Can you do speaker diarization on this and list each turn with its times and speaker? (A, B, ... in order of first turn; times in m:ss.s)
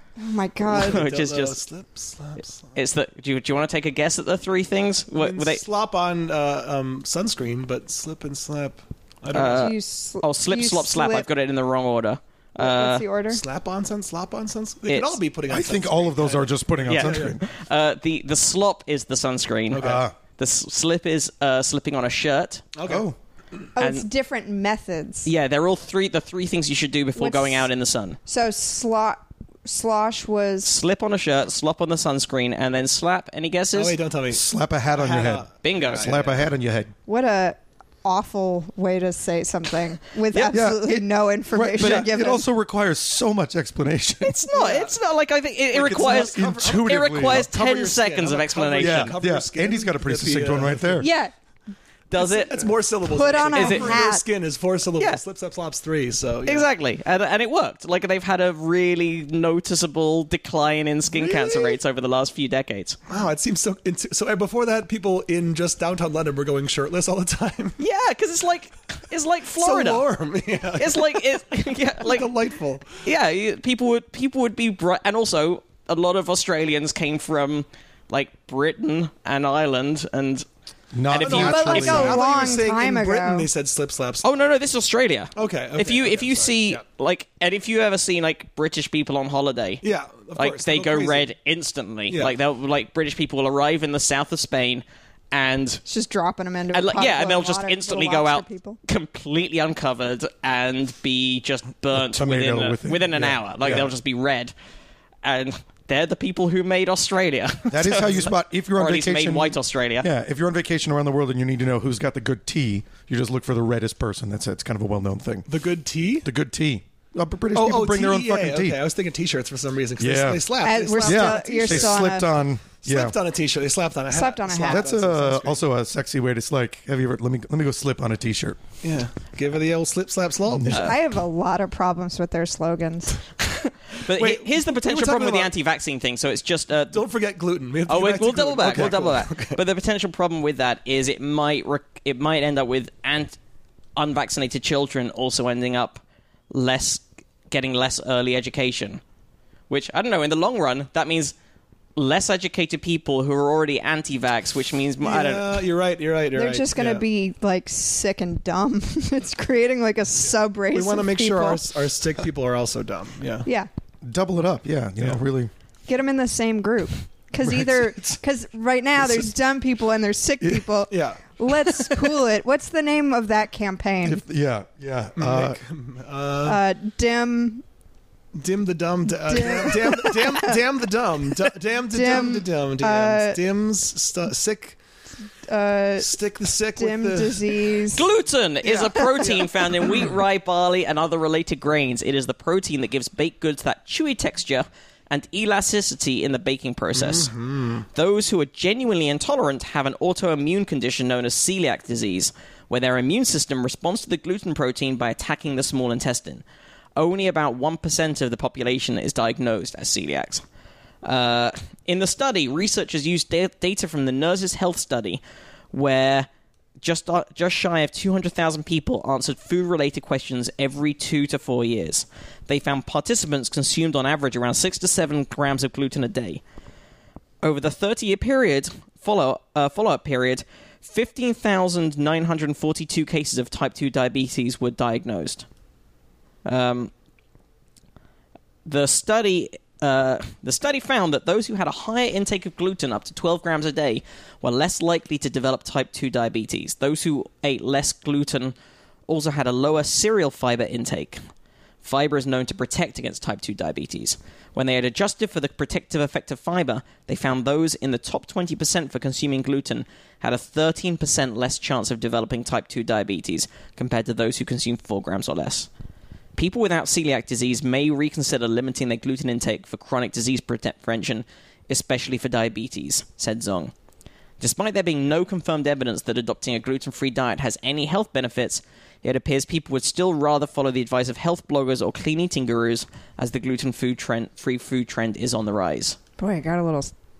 0:00.2-0:01.0 A
0:00.7-0:01.6 B
0:00.7-0:02.7 C
0:02.7-0:05.6 B
0:05.2-0:09.7 C
0:09.3-0:13.0 B
0:09.4-0:11.3 A
0:12.6-0:13.4 A
0:13.3-0:17.4 C
0:14.9-0:15.2 B
0:15.5-0:17.4 D
0:16.9-0:22.6 B
0:19.7-0:20.0 C
0:19.7-0:20.1 D
0:22.8-0:23.1 C
0:22.9-0:23.2 D
0:23.8-0:25.3 A
0:23.8-0:24.0 B
0:25.2-0:28.2 B
0:27.2-0:27.7 A
0:28.2-0:30.7 A
0:30.6-0:34.0 B
0:33.7-0:34.4 C
0:34.3-0:36.9 D
0:34.9-0:36.4 C
0:35.6-0:36.2 B
0:37.1-0:42.4 A
0:40.5-0:44.5 D
0:44.4-0:49.2 B
0:44.5-0:44.9 C
0:45.7-0:51.1 C
0:46.0-0:47.5 D
0:48.8-0:51.1 D
0:51.0-0:51.3 A
0:52.1-0:52.7 B
0:52.2-0:56.7 C
0:53.1-0:54.2 A
0:53.5-0:54.0 B
0:56.4-1:03.0 B
1:01.2-1:01.7 C
1:03.1-1:07.8 C
1:07.8-1:10.1 B
1:09.6-1:11.2 C
1:10.8-1:12.3 B
1:12.0-1:12.9 C
1:13.0-1:20.4 B
1:20.9-1:22.2 D
1:21.1-1:22.0 B
1:21.1-1:24.2 C
1:21.4-1:23.5 A
1:24.2-1:29.8 B
1:25.4-1:26.8 C
1:29.8-1:31.3 C
1:30.4-1:35.8 B
1:32.1-1:32.3 C
1:35.8-1:38.8 A
1:36.7-1:44.5 B
1:41.9-1:43.9 D
1:45.2-1:50.1 B
1:47.7-1:55.5 D
1:55.5-1:56.3 C
1:56.2-1:58.8 D
1:57.5-2:02.2 C
2:00.0-2:00.4 D
2:00.6-2:02.3 A
2:01.0-2:03.1 D
2:02.8-2:05.6 C
2:04.1-2:04.9 A
2:04.6-2:08.6 D
2:08.8-2:11.0 C
2:10.5-2:10.9 D
2:10.7-2:13.2 A
2:13.4-2:17.0 B
2:14.1-2:15.5 C
2:16.9-2:19.6 C
2:17.9-2:23.4 B
2:24.0-2:29.0 B
2:29.7-2:31.3 B
2:32.0-2:35.7 B
2:35.0-2:37.0 C
2:36.3-2:41.6 A
2:40.7-2:43.5 C
2:44.0-2:45.5 D
2:45.9-2:54.2 A
2:47.4-2:48.2 D
2:50.4-2:50.7 D
2:50.9-2:51.4 C
2:54.0-2:55.6 D
2:55.2-2:56.6 C
2:56.4-2:57.6 A
2:58.3-3:04.8 C
2:59.3-3:00.6 A
3:01.9-3:03.4 A
3:05.4-3:06.1 A
3:06.0-3:07.6 C
3:06.7-3:08.0 A
3:07.9-3:17.3 B
3:08.6-3:10.1 C
3:16.9-3:17.8 C
3:17.9-3:26.4 B
3:27.0-3:30.4 B
3:31.0-3:35.2 B
3:35.7-3:36.3 B
3:36.8-3:46.4 B
3:47.4-3:55.4 B
3:56.4-3:56.9 B
3:58.6-4:08.5 B
4:09.1-4:11.2 B
4:11.8-4:25.7 B
4:26.3-4:33.7 B
4:34.4-4:46.0 B
4:46.2-4:46.9 A